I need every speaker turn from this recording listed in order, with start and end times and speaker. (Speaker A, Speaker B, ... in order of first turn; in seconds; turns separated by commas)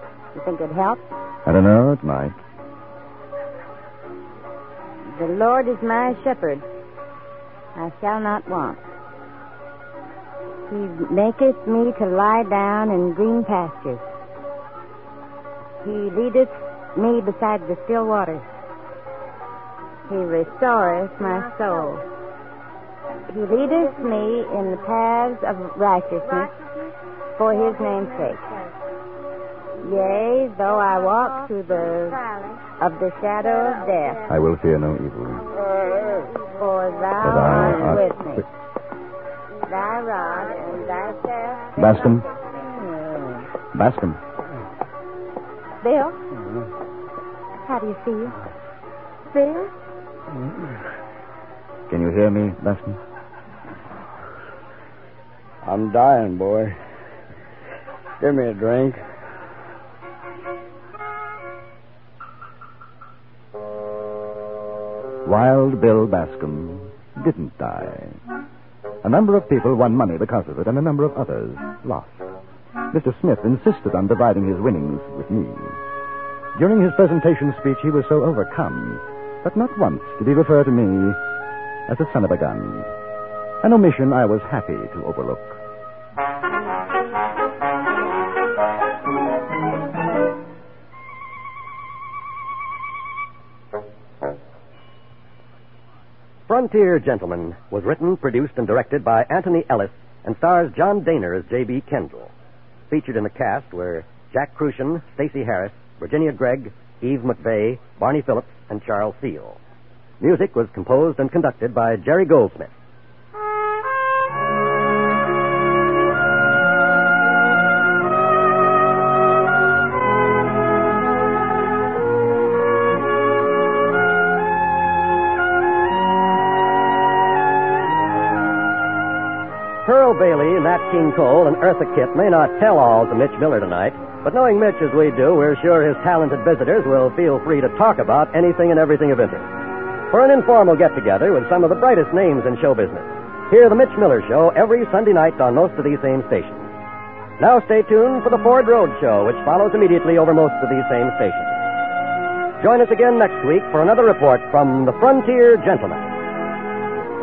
Speaker A: 0.3-1.0, Speaker B: 1.5-2.4, Speaker A: 5.2-6.6, Speaker A: 7.8-8.8, Speaker A: 10.7-14.0, Speaker A: 15.8-18.4, Speaker A: 20.1-22.0, Speaker A: 23.3-26.6, Speaker A: 27.4-28.5, Speaker A: 29.8-34.3, Speaker B: 34.3-35.5, Speaker A: 36.6-38.4, Speaker B: 37.2-38.5, Speaker A: 39.7-42.0, Speaker B: 41.8-42.2, Speaker B: 43.7-44.2, Speaker A: 45.8-46.2, Speaker A: 47.7-48.4, Speaker A: 49.3-49.7, Speaker B: 51.9-53.0, Speaker C: 55.6-56.8, Speaker C: 58.2-59.0, Speaker B: 65.2-68.2, Speaker B: 69.0-72.2, Speaker B: 72.9-75.8, Speaker B: 76.5-81.2, Speaker B: 81.9-82.9, Speaker B: 83.6-85.6, Speaker D: 96.5-102.3, Speaker D: 102.9-109.6, Speaker D: 110.2-112.7, Speaker D: 129.8-139.5, Speaker D: 140.1-146.7, Speaker D: 147.4-151.6, Speaker D: 152.6-156.1